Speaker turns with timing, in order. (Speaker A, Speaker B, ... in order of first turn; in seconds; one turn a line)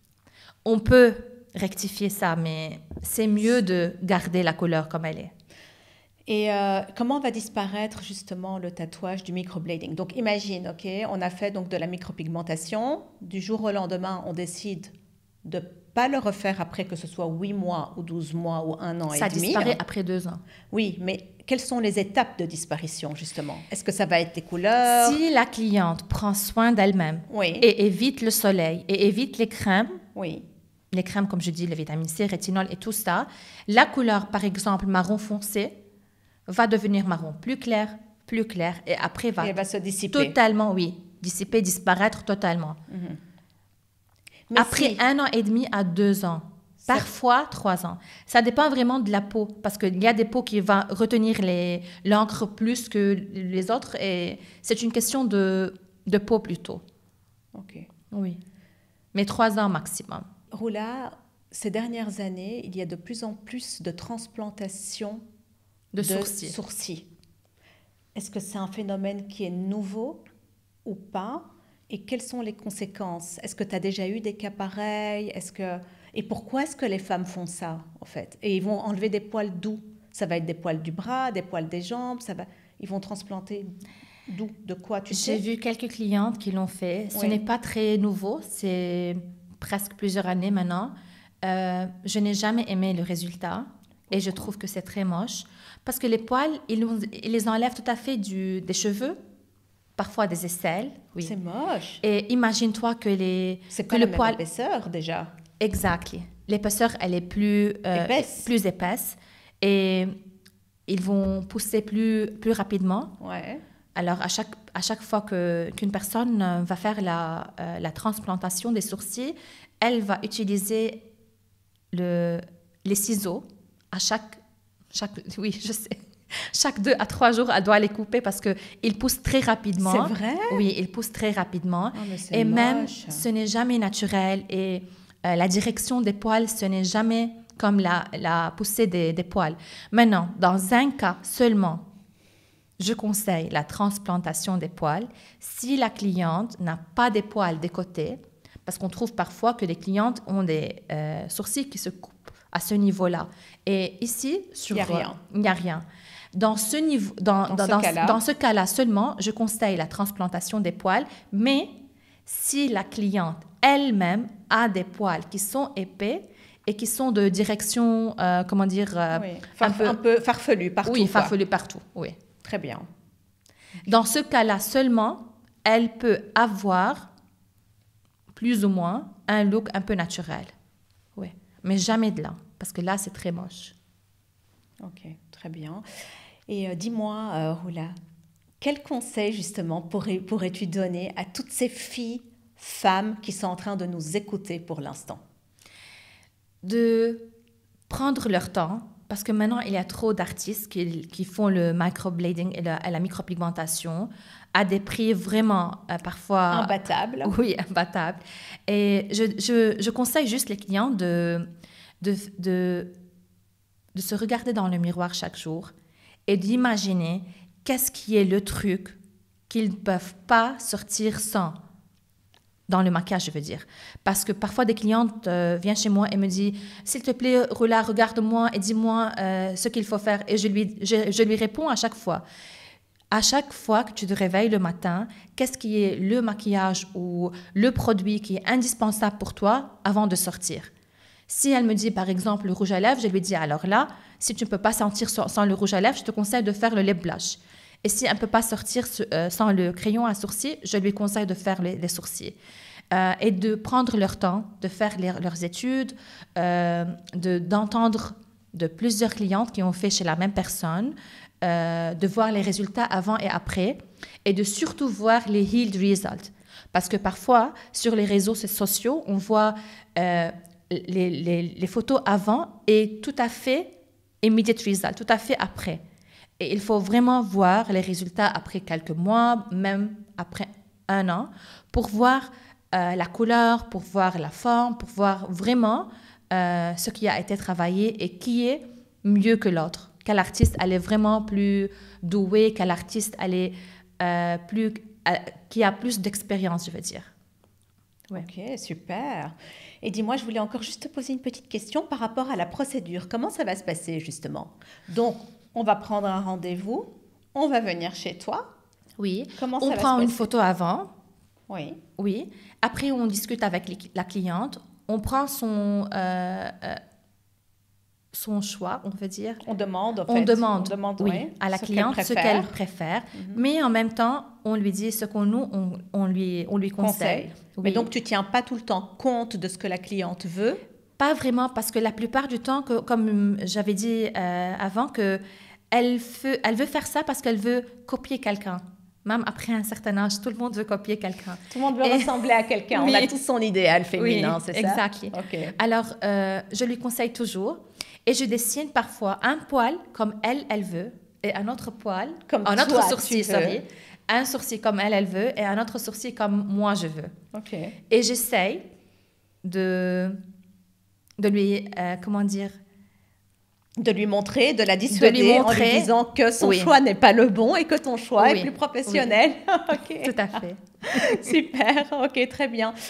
Speaker A: 0.6-5.3
Speaker B: 6.3-14.9
Speaker B: 15.4-19.8
Speaker A: 19.1-20.4
Speaker B: 20.7-25.2
Speaker A: 24.9-30.0
Speaker B: 27.3-27.7
Speaker B: 30.1-30.4
Speaker A: 30.9-35.8
Speaker A: 36.5-42.8
Speaker B: 39.4-40.3
Speaker B: 42.9-43.2
Speaker B: 44.5-45.0
Speaker A: 44.5-56.8
Speaker B: 46.8-47.1
Speaker B: 57.5-57.9
Speaker A: 58.1-58.4
Speaker A: 59.1-60.3
Speaker B: 60.5-65.2
Speaker A: 65.9-66.5
Speaker B: 66.0-67.1
Speaker B: 68.1-70.2
Speaker B: 70.8-83.7
Speaker B: 84.3-85.4
Speaker A: 85.1-99.2
Speaker B: 87.1-87.4
Speaker B: 94.1-94.5
Speaker A: 100.0-101.3
Speaker B: 101.2-102.0
Speaker A: 102.0-104.4
Speaker B: 103.7-105.3
Speaker A: 105.6-110.1
Speaker B: 107.9-108.5
Speaker A: 110.9-113.1
Speaker B: 113.2-113.6
Speaker A: 114.0-121.0
Speaker A: 121.9-124.4
Speaker A: 124.9-141.9
Speaker B: 129.8-130.6
Speaker B: 131.9-133.2
Speaker A: 142.8-161.7
Speaker B: 154.7-155.2
Speaker B: 157.5-158.2
Speaker A: 162.2-170.0
Speaker B: 169.1-171.3
Speaker A: 170.8-172.2
Speaker B: 172.4-172.9
Speaker A: 173.8-177.1
Speaker A: 178.3-180.5
Speaker A: 181.2-183.7
Speaker B: 184.8-185.8
Speaker B: 186.5-187.9
Speaker B: 188.6-195.2
Speaker A: 196.6-197.3
Speaker A: 197.9-211.5
Speaker B: 206.5-207.3
Speaker A: 212.0-212.9
Speaker A: 213.9-215.7
Speaker A: 216.3-218.9
Speaker A: 219.5-221.6
Speaker A: 222.7-232.2
Speaker A: 233.1-240.7
Speaker A: 241.3-252.3
Speaker A: 252.9-273.7
Speaker A: 274.2-275.8
Speaker A: 276.4-297.1
Speaker B: 298.1-308.5
Speaker A: 309.0-310.9
Speaker B: 309.4-310.2
Speaker B: 311.5-311.8
Speaker A: 312.0-316.8
Speaker A: 318.1-319.4
Speaker B: 319.4-322.6
Speaker A: 320.1-327.9
Speaker B: 323.1-323.4
Speaker B: 326.8-330.6
Speaker A: 331.0-342.1
Speaker B: 341.5-345.5
Speaker A: 342.7-343.1
Speaker A: 344.0-357.1
Speaker B: 352.3-353.6
Speaker B: 357.3-357.8
Speaker A: 357.9-358.6
Speaker A: 359.4-360.2
Speaker A: 361.2-362.5
Speaker B: 363.8-370.2
Speaker A: 364.9-366.7
Speaker A: 368.2-369.1
Speaker A: 370.0-371.3
Speaker B: 370.8-372.8